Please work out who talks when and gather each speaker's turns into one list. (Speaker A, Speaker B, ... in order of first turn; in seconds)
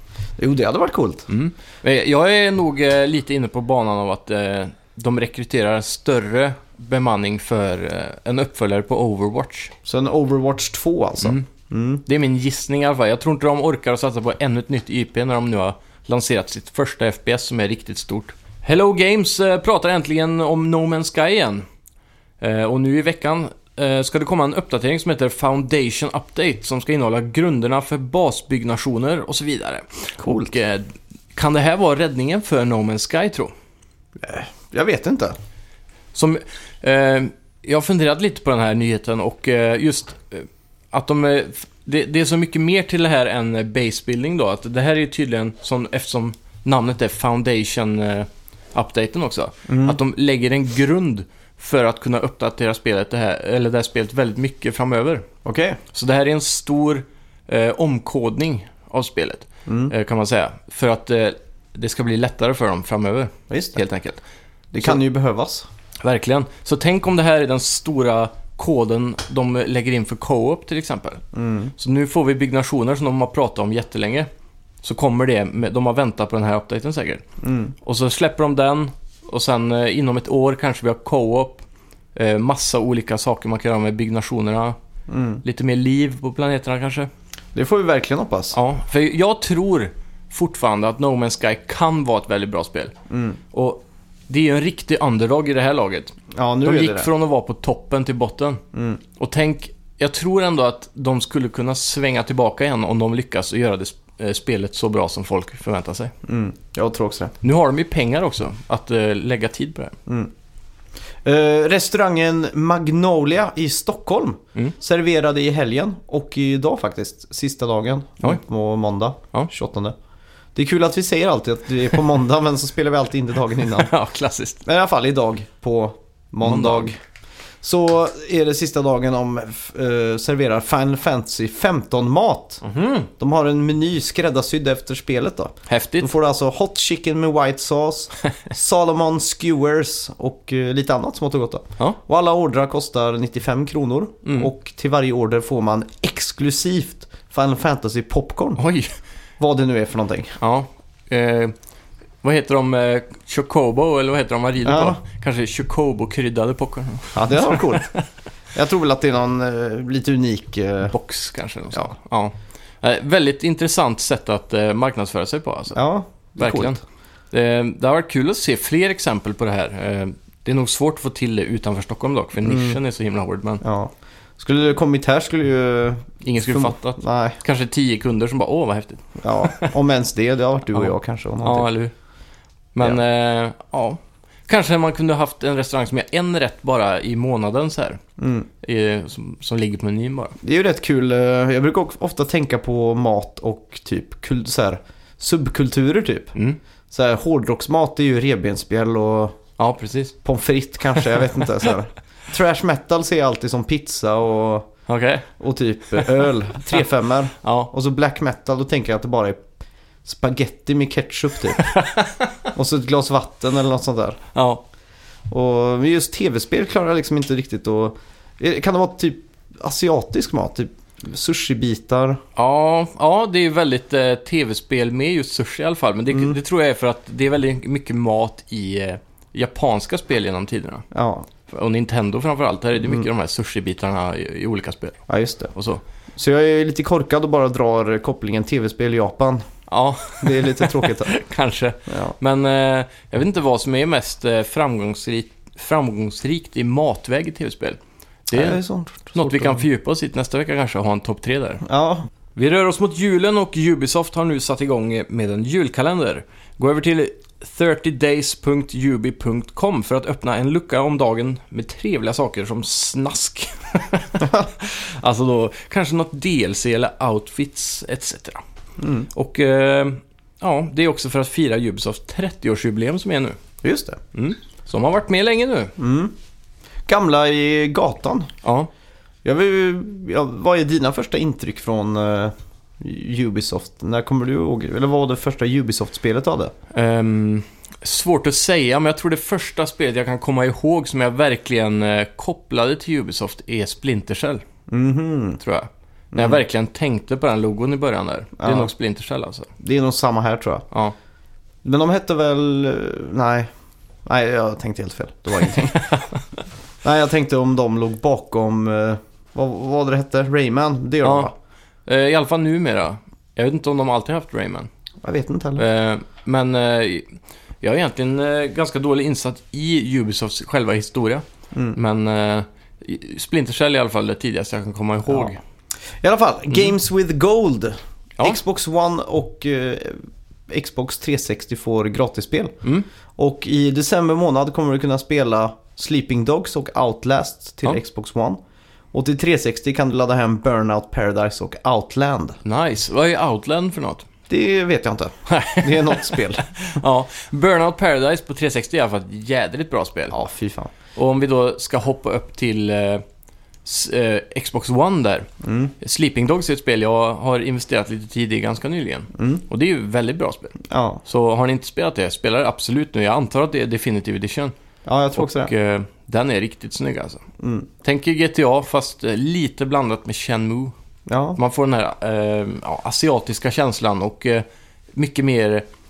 Speaker A: 0.4-1.3, 9.8-12.0, 30.2-30.5, 34.2-35.4, 49.7-50.0, 55.5-55.8, 59.7-59.9, 63.5-63.8, 64.7-65.7, 71.3-71.7, 77.4-77.7, 85.1-85.4, 87.5-88.6, 93.1-93.4, 96.3-97.1, 98.7-99.0, 106.2-107.3, 110.1-110.3, 111.2-120.0, 120.5-123.9, 124.7-127.0, 127.6-132.6, 133.2-148.6, 149.4-150.4, 154.7-155.0, 157.1-157.9, 158.5-160.9, 165.7-166.8, 172.4-172.8, 173.6-177.4, 179.2-181.7, 188.2-188.5, 190.4-196.3, 196.9-199.4, 200.2-204.7, 205.4-209.4, 210.1-211.7, 212.6-214.2, 215.3-222.2, 226.1-226.4, 230.9-231.3, 235.1-235.5, 236.2-239.4, 240.2-241.1, 241.9-242.2, 248.3-249.7, 251.6-252.1, 268.8-269.1, 273.6-274.0, 275.8-276.1, 276.9-278.3, 279.2-286.5, 294.7-295.4, 296.1-296.4, 298.4-298.7, 299.6-300.6, 301.6-303.5, 304.1-305.9, 306.8-311.3, 315.0-315.7, 326.0-332.6, 333.2-338.4, 338.9-342.4, 344.3-346.5, 350.1-350.7, 355.4-355.7, 359.2-359.4, 360.7-361.0, 364.9-365.5, 367.4-367.7, 371.1-371.4
Speaker B: 1.3-9.7, 11.2-11.5, 12.1-21.7, 22.4-33.5, 36.1-55.3, 55.9-64.2, 66.0-71.2, 71.8-74.3, 74.8-77.2, 77.8-81.6, 82.2-84.8, 85.4-87.1, 88.5-92.9, 93.5-98.6, 99.2-106.1, 107.4-110.0, 123.7-124.6, 126.4-126.9, 132.6-133.1, 135.7-136.1, 144.2-144.5, 148.6-148.9, 150.4-151.5, 152.2-158.1, 160.9-165.8, 166.4-166.8, 167.3-173.6, 176.2-179.7, 181.4-181.9, 182.8-188.0, 188.6-190.4, 199.6-200.2, 204.9-205.3, 207.4-207.7, 211.6-212.5, 214.3-214.6, 222.4-230.9, 231.4-235.8, 239.7-248.6, 249.2-251.6, 252.3-268.4, 269.1-273.4, 274.1-275.7, 278.4-278.7, 286.7-294.4, 295.4-299.5, 305.5-306.2, 311.0-311.3, 311.9-314.7, 315.6-325.4, 342.4-344.1, 345.3-350.2, 351.0-353.0, 353.6-355.3, 355.8-364.5, 365.2-367.3, 367.8-370.7, 371.4-374.4, 375.0-375.7